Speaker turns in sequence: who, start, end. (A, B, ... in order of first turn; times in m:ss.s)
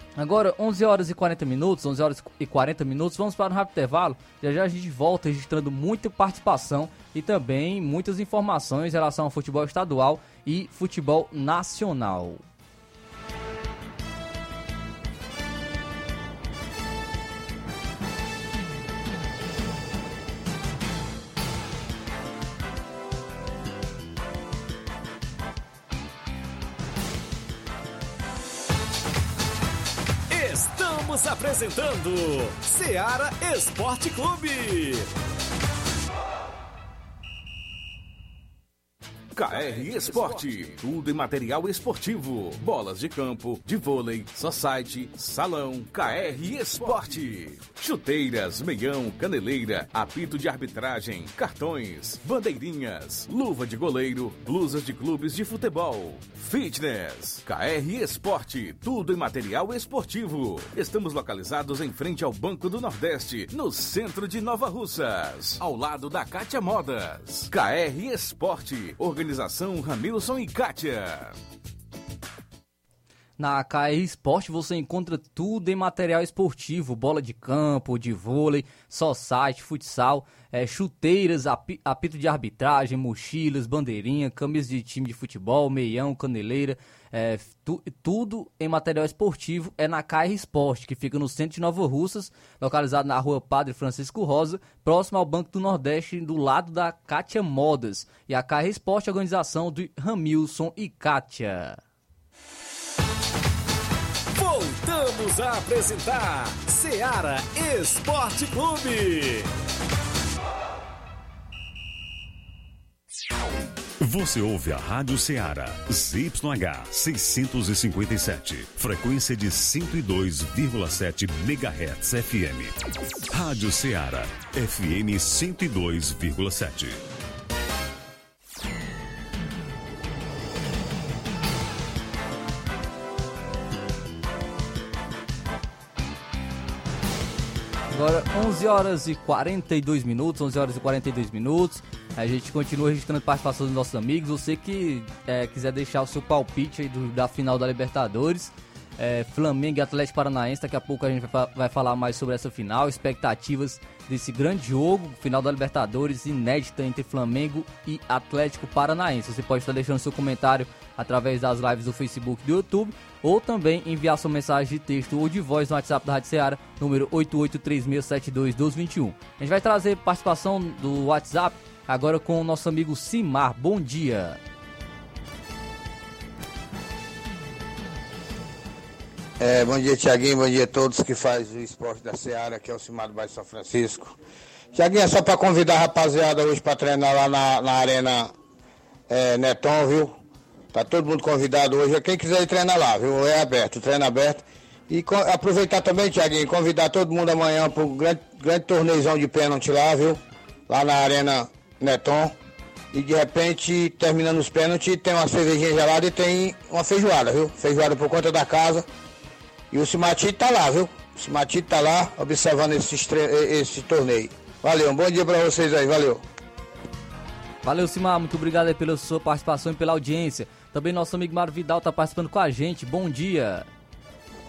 0:00.2-0:12.4 A
0:30.3-0:35.1 B
0:39.4-1:11.3 C
1:13.4-1:41.8 A
1:44.3-1:49.5 B
1:54.0-2:02.7 D
2:03.3-2:07.0 D
2:17.9-2:54.4 A
2:59.4-3:04.2 E
3:04.7-3:08.3 E
3:09.1-3:10.2 E
3:10.7-3:22.3 E
3:22.9-3:28.9 E
3:29.7-3:36.2 E
3:37.6-3:43.7 A